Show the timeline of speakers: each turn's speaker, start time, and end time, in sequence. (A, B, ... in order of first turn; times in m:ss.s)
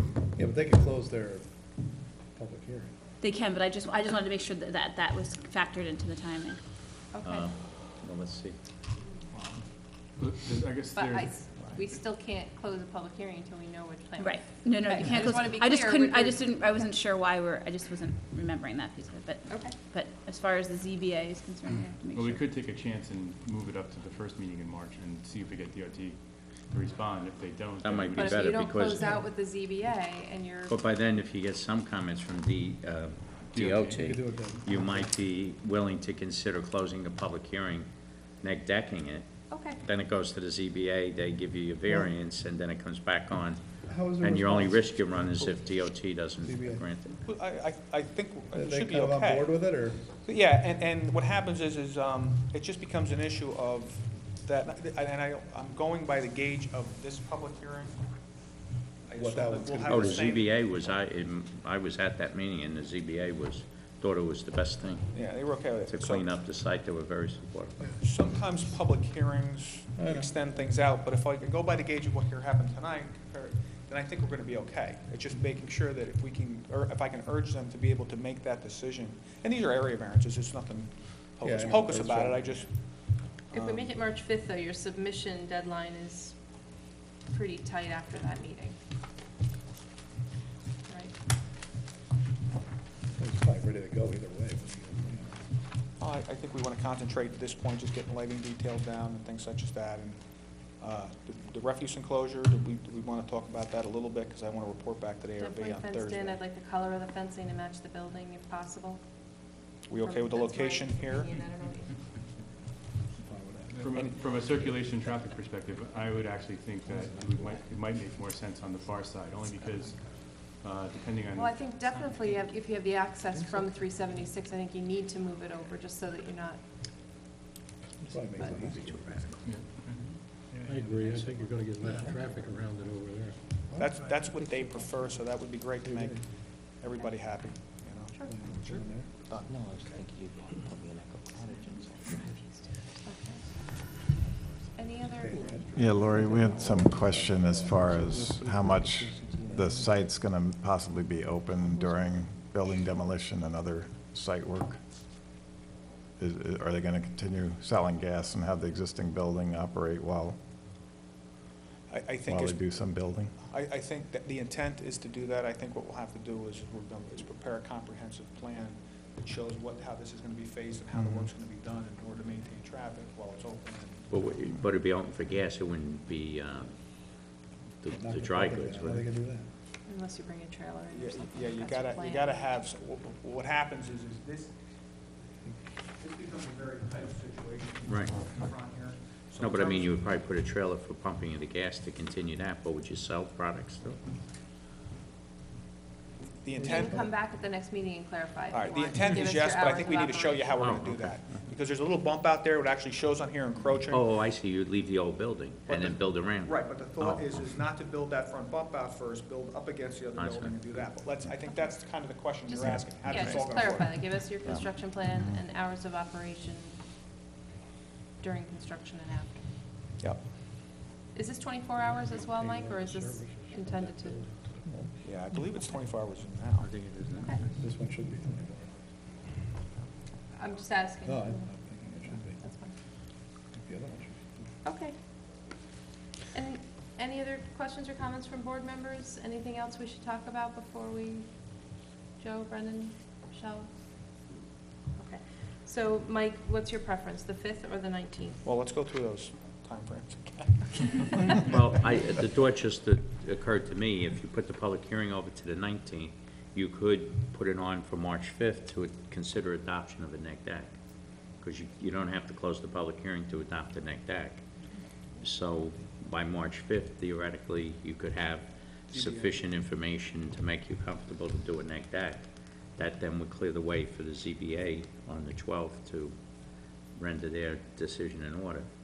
0:00.3-0:01.5 A
0:02.3-0:02.9 A
0:03.2-0:06.6 B
0:07.1-0:07.5 C
0:07.2-0:08.6 D
0:10.2-0:11.5 E
0:10.9-0:16.9 C
0:14.2-0:22.5 B
0:19.5-0:19.8 C
0:22.1-0:28.5 E
0:27.8-0:29.2 D
0:28.2-0:30.8 C
0:30.7-0:37.9 D
0:33.5-0:34.1 E
0:34.0-0:35.1 A
0:38.4-0:47.2 D
0:39.5-0:39.8 C
0:43.8-0:45.6 A
0:46.4-0:46.9 A
0:47.2-0:49.5 F
0:48.5-0:50.1 A
0:50.2-0:58.0 F
0:59.0-1:00.5 F
0:59.1-1:00.3 A
0:59.9-1:07.8 D
1:05.1-1:06.3 F
1:07.9-1:23.9 F
1:10.0-1:10.3 A
1:21.4-1:22.5 A
1:23.5-1:26.4 C
1:27.2-1:28.8 C
1:30.9-1:31.1 C
1:33.1-1:35.4 A
1:36.0-1:40.2 F
1:40.8-1:46.4 F
1:45.4-1:49.0 C
1:49.9-1:51.3 F
1:49.9-1:52.0 C
1:53.2-1:54.2 A
1:53.8-2:01.8 E
2:01.3-2:06.6 C
2:08.0-2:09.3 A
2:09.4-2:10.2 E
2:10.5-2:12.6 A
2:10.7-2:13.2 G
2:10.8-2:11.1 H
2:11.9-2:12.5 H
2:13.7-2:14.0 A
2:13.7-2:20.0 F
2:15.8-2:16.3 A
2:18.1-2:18.4 C
2:18.3-2:19.1 A
2:19.9-2:21.5 H
2:22.6-2:23.6 C
2:24.7-2:25.7 C
2:25.2-2:28.3 A
2:25.7-2:34.8 I
2:28.2-2:28.6 H
2:29.1-2:29.8 A
2:29.2-2:29.5 H
2:36.2-2:40.4 I
2:41.9-2:42.6 F
2:42.2-2:43.3 I
2:43.4-2:54.1 F
2:54.1-2:59.1 D
2:57.9-2:59.5 A
2:59.8-3:02.6 C
3:00.9-3:04.5 F
3:06.0-3:09.9 F
3:07.8-3:08.2 D
3:09.4-3:14.0 D
3:16.4-3:17.1 F
3:16.6-3:20.6 C
3:18.5-3:24.1 F
3:20.6-3:21.4 D
3:23.9-3:27.3 D
3:25.7-3:34.0 F
3:30.1-3:30.6 D
3:32.4-3:36.8 C
3:33.1-3:33.4 D
3:38.2-3:39.4 C
3:41.1-3:44.2 C
3:42.3-3:43.5 A
3:44.6-3:44.9 A
3:45.0-3:46.7 F
3:46.7-3:47.3 E
3:47.1-3:47.4 C
3:47.6-3:48.8 A
3:50.3-3:52.7 C
3:51.0-3:52.4 A
3:53.5-3:54.4 A
3:54.6-3:55.0 C
3:56.3-4:01.4 C
4:02.2-4:03.7 C
4:04.9-4:08.4 C
4:08.4-4:11.3 F
4:11.4-4:24.4 D
4:25.2-4:36.1 D
4:28.9-4:29.4 F
4:36.9-4:38.6 D